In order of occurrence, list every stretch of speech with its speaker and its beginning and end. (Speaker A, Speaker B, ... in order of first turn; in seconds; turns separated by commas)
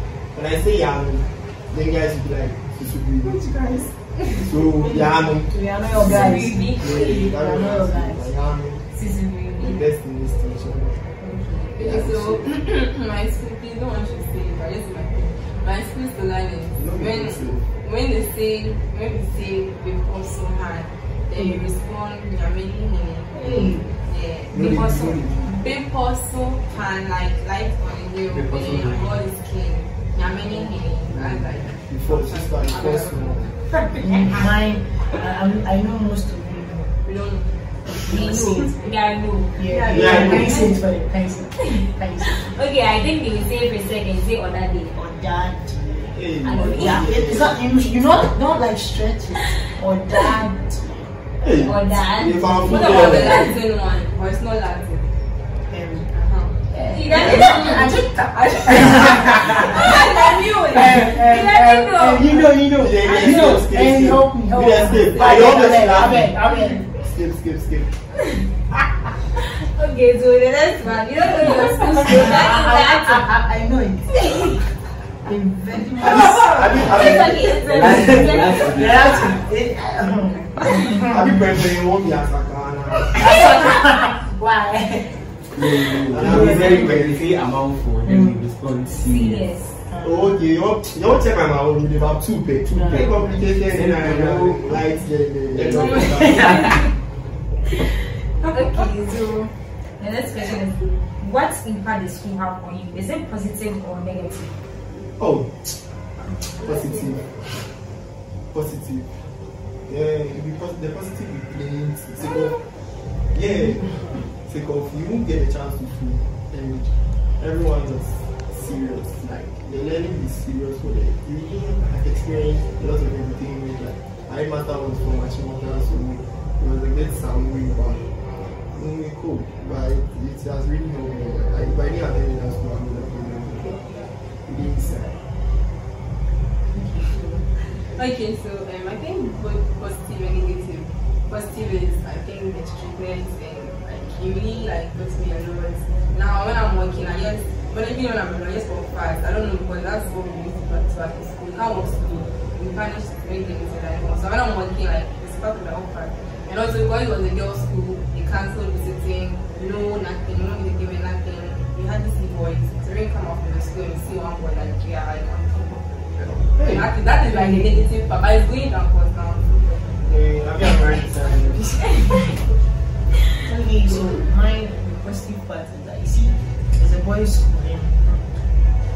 Speaker A: 0.3-3.5, Speaker B: 3.2-4.4, Speaker A: 4.3-8.8, Speaker C: 4.7-8.2, Speaker D: 6.0-7.3, Speaker D: 8.9-9.8, Speaker A: 9.6-11.1, Speaker D: 11.2-11.6, Speaker B: 11.7-34.5, Speaker A: 11.8-12.4, Speaker A: 16.8-17.7, Speaker C: 21.3-21.6, Speaker C: 23.3-23.9, Speaker A: 24.5-25.5, Speaker E: 28.3-29.2, Speaker A: 31.1-33.5, Speaker C: 33.9-37.0, Speaker B: 37.0-38.7, Speaker D: 38.0-40.6, Speaker C: 38.0-38.7, Speaker C: 39.5-42.5, Speaker B: 39.6-40.8, Speaker A: 39.9-40.7, Speaker D: 42.2-44.9, Speaker C: 44.9-51.1, Speaker A: 46.0-47.6, Speaker D: 46.4-47.1, Speaker A: 51.4-53.5, Speaker D: 51.6-53.5, Speaker C: 52.4-52.9, Speaker B: 52.6-55.1, Speaker C: 55.7-60.2, Speaker B: 56.2-56.5, Speaker D: 56.9-58.0, Speaker B: 57.1-61.1, Speaker D: 59.5-62.5, Speaker C: 60.7-66.8, Speaker A: 62.7-67.9, Speaker D: 69.4-73.3, Speaker C: 71.4-74.7, Speaker C: 75.2-81.5, Speaker A: 76.0-78.2, Speaker D: 76.7-79.2, Speaker E: 77.6-79.5, Speaker A: 81.0-83.5, Speaker C: 83.0-85.2, Speaker E: 85.5-89.6, Speaker A: 86.1-87.3, Speaker C: 86.2-86.9, Speaker C: 88.0-88.4, Speaker D: 88.9-89.7, Speaker C: 89.9-90.3, Speaker A: 90.0-96.6, Speaker C: 92.7-93.4, Speaker E: 93.6-94.9, Speaker E: 95.5-96.8, Speaker B: 95.7-96.0, Speaker D: 95.9-96.7, Speaker B: 98.4-98.9, Speaker D: 98.5-104.6, Speaker A: 105.2-105.5, Speaker A: 106.6-107.3, Speaker B: 106.6-107.2, Speaker A: 108.5-109.1, Speaker A: 109.9-112.6, Speaker A: 113.3-128.0, Speaker A: 128.7-133.8, Speaker A: 134.4-135.2, Speaker C: 136.7-137.5, Speaker B: 137.9-170.0, Speaker A: 166.2-166.9, Speaker C: 167.3-167.8, Speaker A: 170.0-171.9, Speaker B: 171.0-172.3, Speaker C: 173.4-178.4